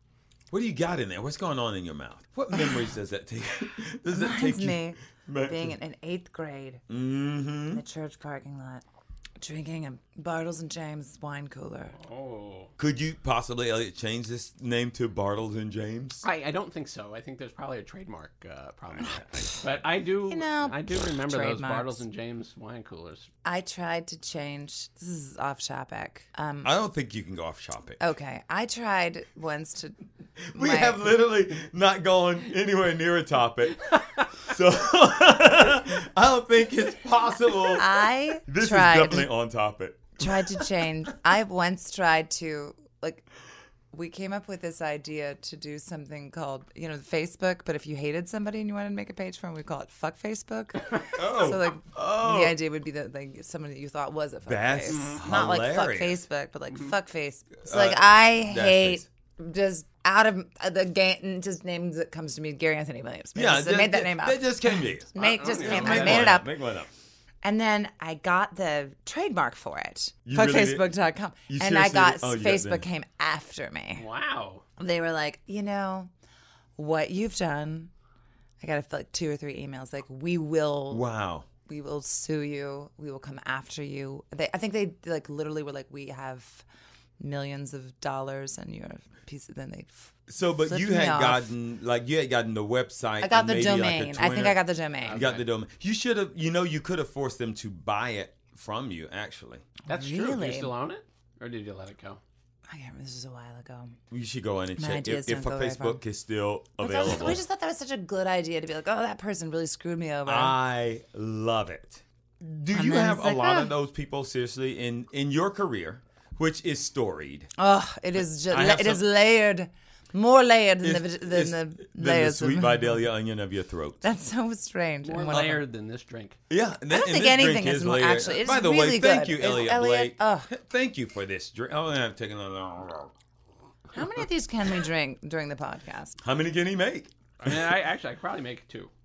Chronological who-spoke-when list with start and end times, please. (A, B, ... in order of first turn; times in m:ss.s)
0:00.5-0:05.8 A
0:04.1-0:06.8 B
0:06.9-0:07.8 A
0:07.7-0:08.8 B
0:09.4-0:11.9 B
0:12.0-0:12.7 C
0:12.8-0:16.2 A
0:16.2-0:23.3 C
0:19.0-0:19.6 A
0:20.3-0:22.0 B
0:23.4-0:26.7 B
0:26.6-0:28.0 A
0:28.0-0:30.0 B
0:30.5-0:40.7 A
0:30.5-0:31.1 B
0:37.8-0:39.3 B
0:40.2-0:43.2 B
0:43.9-1:06.5 B
0:51.1-0:52.6 A
0:54.5-0:56.2 A
0:54.9-0:55.2 C
0:57.6-0:59.0 A
1:03.3-1:06.9 A
1:05.2-1:06.4 C
1:07.4-1:14.0 B
1:10.2-1:10.9 A
1:11.5-1:12.8 A
1:14.0-1:14.6 C
1:14.8-1:16.1 B
1:16.8-1:17.9 B
1:18.6-1:21.0 B
1:20.9-1:21.5 A
1:21.6-1:26.6 B
1:27.2-1:31.5 B
1:30.3-1:39.7 A
1:33.2-1:35.2 B
1:35.0-1:35.4 C
1:39.9-1:40.7 B
1:39.9-1:42.2 C
1:42.7-1:44.0 B
1:44.1-1:47.4 A
1:44.8-1:46.0 B
1:46.8-1:50.6 B
1:50.2-1:57.5 A
1:52.7-1:53.7 B
1:57.6-2:03.0 B
1:58.5-1:59.0 A
2:00.8-2:04.0 A
2:04.0-2:05.6 B
2:05.0-2:06.4 C
2:05.3-2:05.6 A
2:06.5-2:13.1 A
2:06.9-2:10.5 B
2:13.9-2:16.2 B
2:16.2-2:17.6 A
2:17.4-2:18.9 C